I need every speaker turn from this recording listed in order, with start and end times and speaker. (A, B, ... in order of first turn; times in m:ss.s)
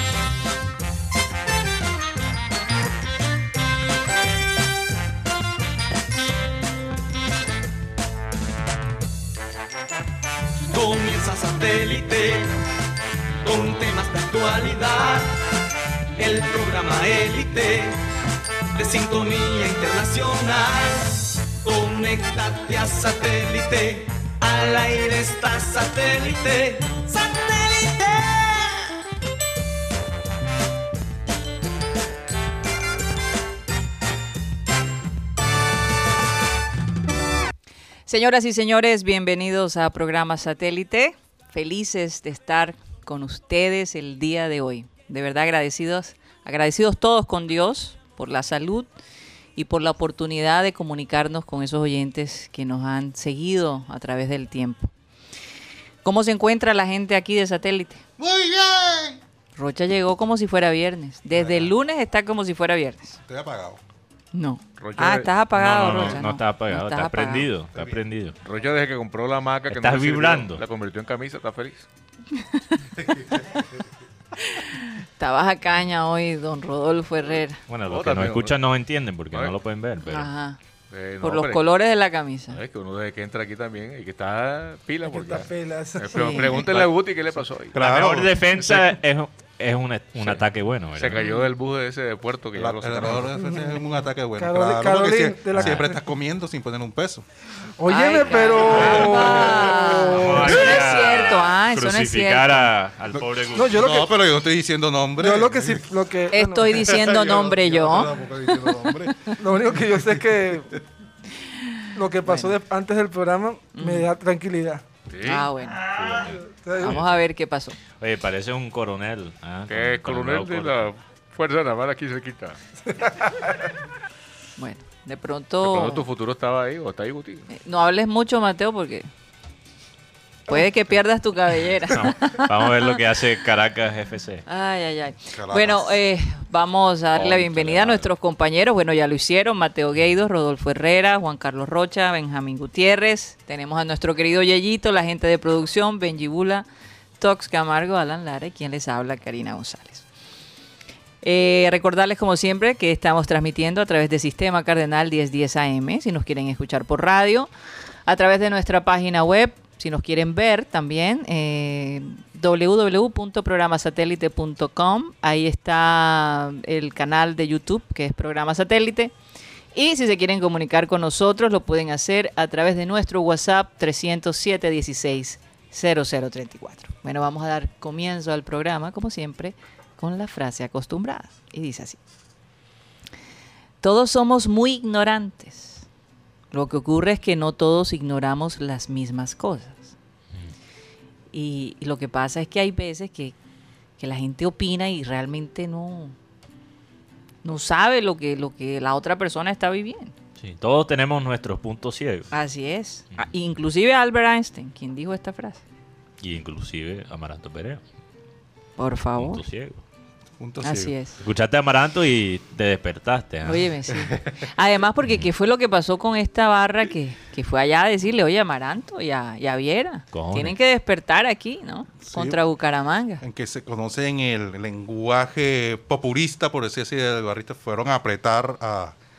0:10.7-0:12.6 A
0:13.4-0:15.3 A
0:16.2-0:18.0 A
0:18.7-0:28.9 A
0:38.1-0:48.9 B
0:49.6-0:54.9 B
0:56.0-0:58.0 B
0:58.2-0:59.2 C
0:59.6-1:03.2 B
1:01.3-1:01.7 C
1:03.3-1:03.8 C
1:04.3-1:07.5 B
1:04.8-1:06.1 D
1:05.5-1:08.4 E
1:07.7-1:08.0 C
1:08.4-1:11.8 D
1:09.7-1:10.6 E
1:12.4-1:12.7 B
1:13.0-1:13.7 C
1:14.4-1:17.6 B
1:17.7-1:20.3 E
1:17.9-1:18.6 D
1:20.0-1:20.6 B
1:20.9-1:21.7 D
1:21.2-1:22.6 B
1:22.5-1:27.8 D
1:25.0-1:26.9 F
1:26.1-1:26.6 B
1:27.7-1:28.4 C
1:27.8-1:31.2 E
1:28.6-1:28.9 D
1:31.0-1:33.3 D
1:31.1-1:31.5 B
1:32.5-1:37.2 C
1:33.3-1:36.0 F
1:37.8-1:40.7 F
1:37.9-1:42.7 B
1:38.7-1:43.8 E
1:38.8-1:39.4 C
1:43.5-1:44.1 F
1:43.7-1:45.9 C
1:45.2-1:46.9 F
1:46.3-1:49.4 B
1:46.7-1:49.3 C
1:49.4-1:50.8 F
1:51.9-1:54.8 F
1:52.2-1:52.5 B
1:53.7-1:54.1 B
1:55.1-1:56.3 D
1:55.2-1:56.2 B
1:55.9-1:56.3 E
1:56.4-1:57.0 F
1:56.8-1:57.8 B
1:58.0-2:00.9 E
1:59.7-2:02.6 D
2:02.9-2:03.7 F
2:04.6-2:06.0 B
2:05.6-2:07.5 D
2:07.5-2:09.1 B
2:10.5-2:13.0 B
2:11.9-2:14.4 E
2:14.4-2:26.6 B
2:15.3-2:16.0 C
2:17.1-2:18.0 D
2:27.2-2:30.0 B
2:31.2-2:37.5 B
2:38.0-2:49.1 B
2:49.7-3:02.0 B
3:03.8-3:05.8 B
3:06.5-3:09.9 B
3:11.3-3:13.3 B
3:14.0-3:16.1 B
3:17.4-3:20.1 B
3:20.4-3:22.3 E
3:22.3-3:25.6 B
3:26.2-3:27.8 E
3:28.8-3:29.4 B
3:29.2-3:29.8 E
3:30.4-3:30.9 C
3:30.6-3:31.2 B
3:31.2-3:33.7 E
3:33.4-3:43.2 B
3:40.1-3:40.6 E
3:42.0-3:42.4 C
3:43.2-3:49.0 C